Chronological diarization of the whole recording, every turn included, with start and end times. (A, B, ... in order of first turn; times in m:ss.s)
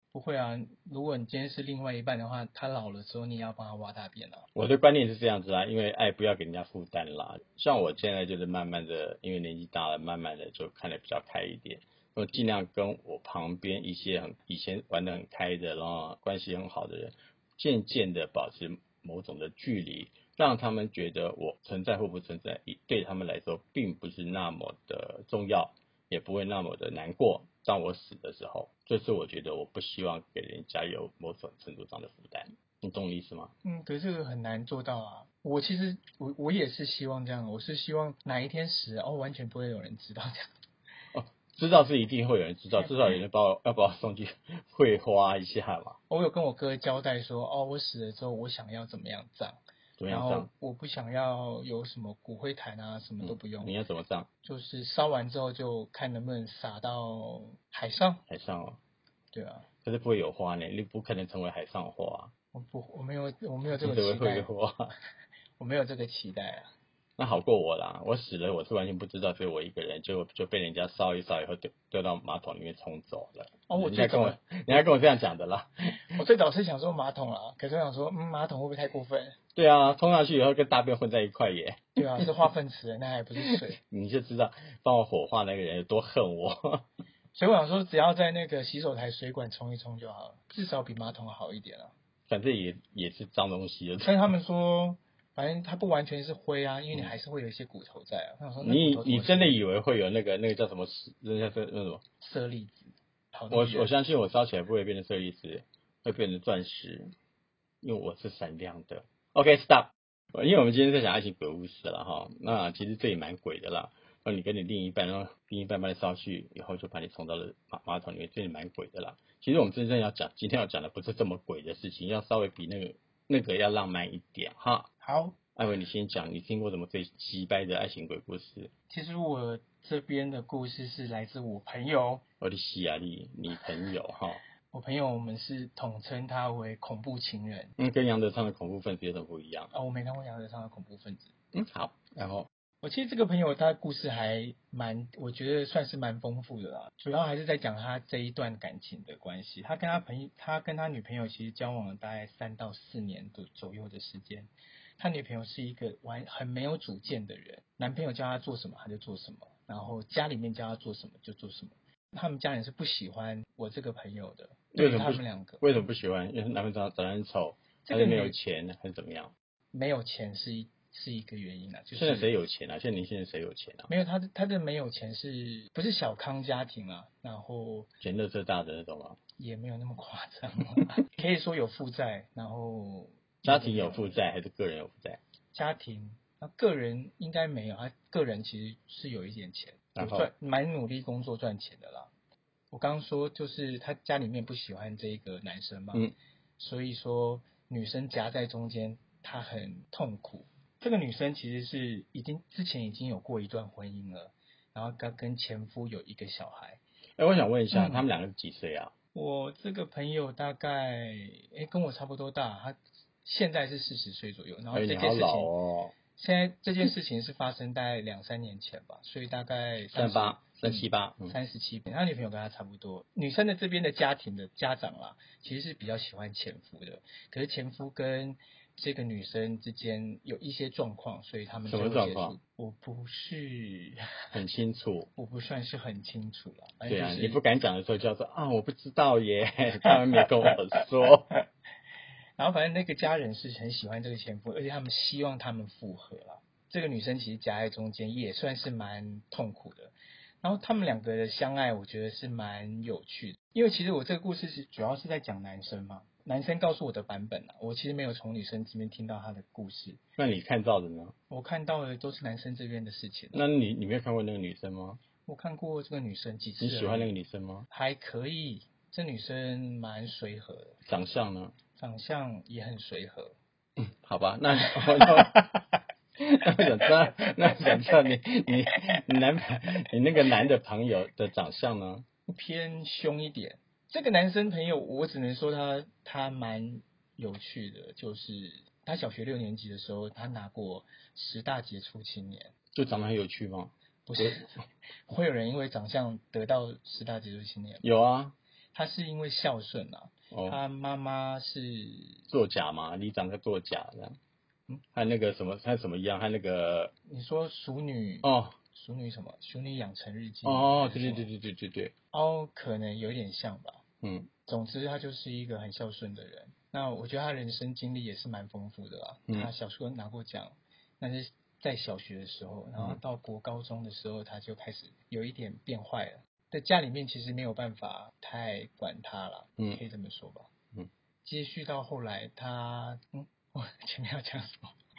0:00.1-0:04.4 A
0:04.5-0:33.5 B
0:33.6-0:40.5 A
0:41.1-0:46.0 B
0:46.1-0:53.8 A
0:50.0-0:50.5 B
0:53.2-0:54.3 B
0:54.4-0:58.2 A
0:58.3-0:58.8 B
0:59.3-0:59.6 A
0:59.8-1:02.3 B
1:02.5-1:04.5 A
1:03.8-1:04.9 B
1:05.6-1:06.7 A
1:07.2-1:16.2 B
1:13.7-1:14.9 A
1:16.1-1:19.4 A
1:19.5-1:22.3 B
1:22.0-1:23.8 A
1:23.4-1:26.8 B
1:27.3-1:31.9 A
1:32.3-1:34.3 B
1:34.0-1:39.6 A
1:38.6-1:42.0 B
1:42.2-1:43.9 A
1:43.5-1:47.1 B
1:47.8-2:04.9 B
2:05.0-2:05.4 A
2:05.6-2:08.7 B
2:08.9-2:12.2 A
2:12.4-2:14.4 B
2:14.7-2:17.7 A
2:17.8-2:19.7 B
2:19.7-2:21.3 A
2:21.5-2:22.5 B
2:22.8-2:45.6 A
2:44.7-2:49.3 B
2:47.8-2:48.4 A
2:49.7-2:52.3 A
2:51.9-2:53.9 B
2:53.9-2:57.9 A
2:58.0-2:59.2 B
2:59.4-3:04.2 A
3:03.4-3:05.2 B
3:05.5-3:12.1 A
3:10.0-3:10.3 B
3:12.7-3:26.8 A
3:27.2-3:28.9 B
3:27.7-3:28.1 A
3:29.1-3:35.5 A
3:34.7-3:35.9 B
3:36.1-3:54.0 A
3:39.9-3:41.3 B
3:51.7-3:52.4 B
3:54.3-3:55.1 B
3:55.2-3:57.4 A
3:56.8-4:01.3 B
4:02.4-4:20.0 A
4:20.2-4:21.1 B
4:21.3-4:23.4 A
4:23.3-4:25.0 B
4:25.2-4:27.1 A
4:26.6-4:27.6 B
4:27.7-4:30.8 A
4:30.9-4:31.5 B
4:31.8-4:33.3 A
4:33.8-4:35.6 B
4:34.6-4:35.4 A
4:36.3-4:42.0 B
4:42.3-4:52.5 A
4:52.7-4:54.4 B
4:54.0-4:54.5 A
4:55.1-4:57.8 A
4:57.8-4:58.3 B
4:58.7-5:02.3 A
5:00.3-5:00.6 B
5:02.3-5:04.2 B
5:04.9-5:06.9 B
5:07.1-5:11.3 A
5:08.2-5:08.6 B
5:10.4-5:11.9 B
5:12.1-5:13.8 A
5:14.0-5:14.3 B
5:14.4-5:30.5 A
5:31.2-5:34.7 A